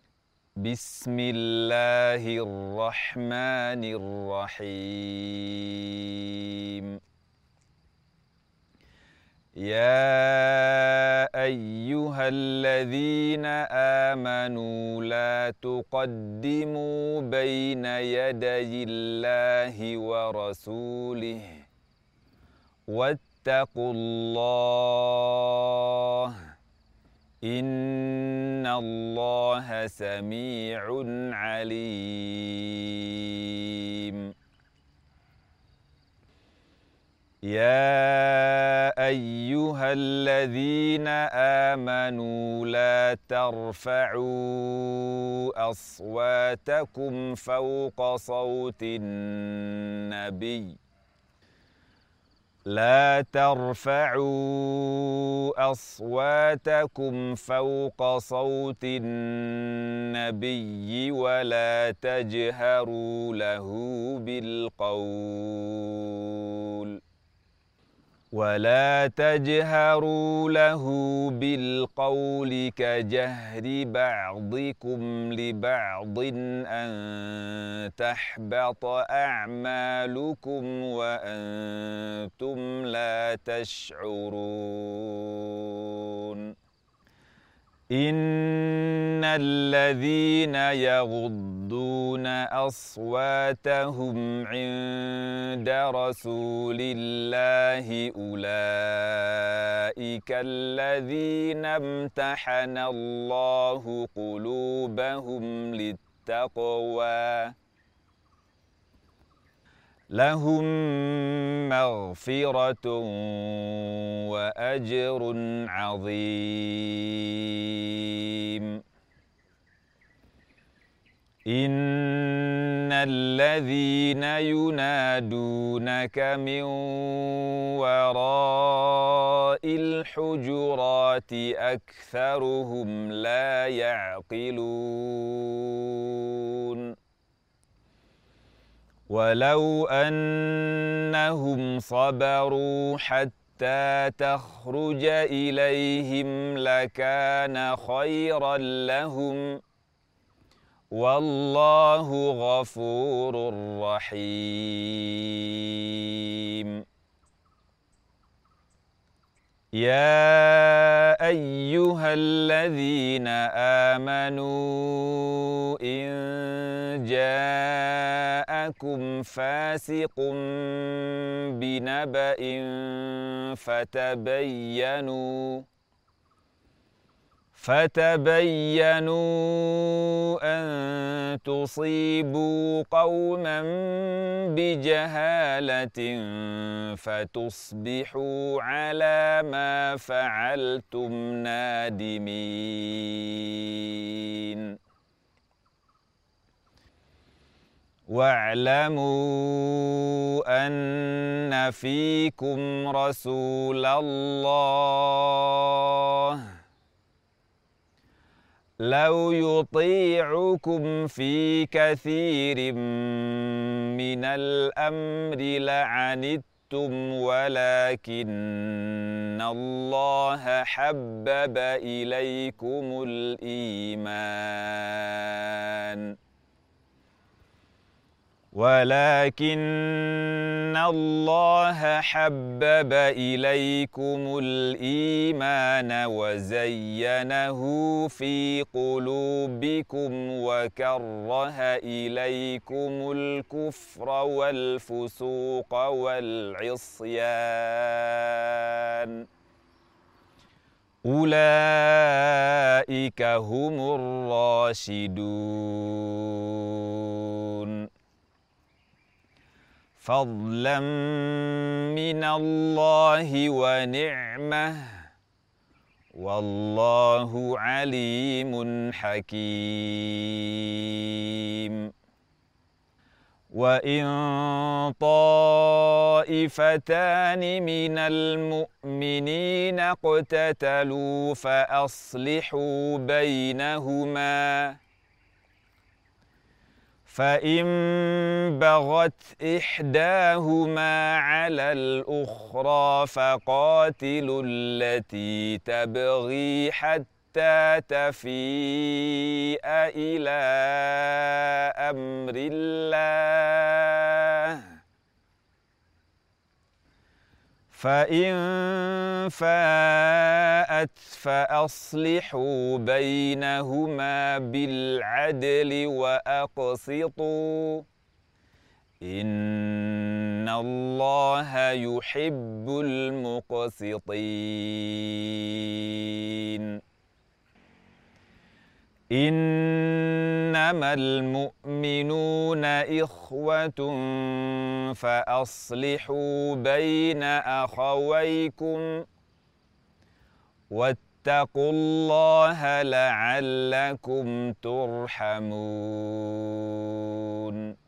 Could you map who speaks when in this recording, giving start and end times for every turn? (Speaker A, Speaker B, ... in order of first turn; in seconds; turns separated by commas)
Speaker A: 0.6-7.0, Speaker A: 9.6-21.7, Speaker A: 22.9-26.4, Speaker A: 27.4-34.3, Speaker A: 37.5-50.8, Speaker A: 52.7-67.0, Speaker A: 68.3-86.5, Speaker A: 87.9-107.5, Speaker A: 110.1-118.8, Speaker A: 121.5-136.9, Speaker A: 139.1-149.6, Speaker A: 150.9-156.8, Speaker A: 159.8-175.7, Speaker A: 177.6-194.8, Speaker A: 198.1-206.5, Speaker A: 208.8-226.2, Speaker A: 228.5-249.2, Speaker A: 251.0-257.9, Speaker A: 260.0-265.1, Speaker A: 266.1-271.9, Speaker A: 273.5-284.8, Speaker A: 287.1-304.7, Speaker A: 307.7-317.9, Speaker A: 319.0-326.8, Speaker A: 329.1-339.0, Speaker A: 340.7-347.7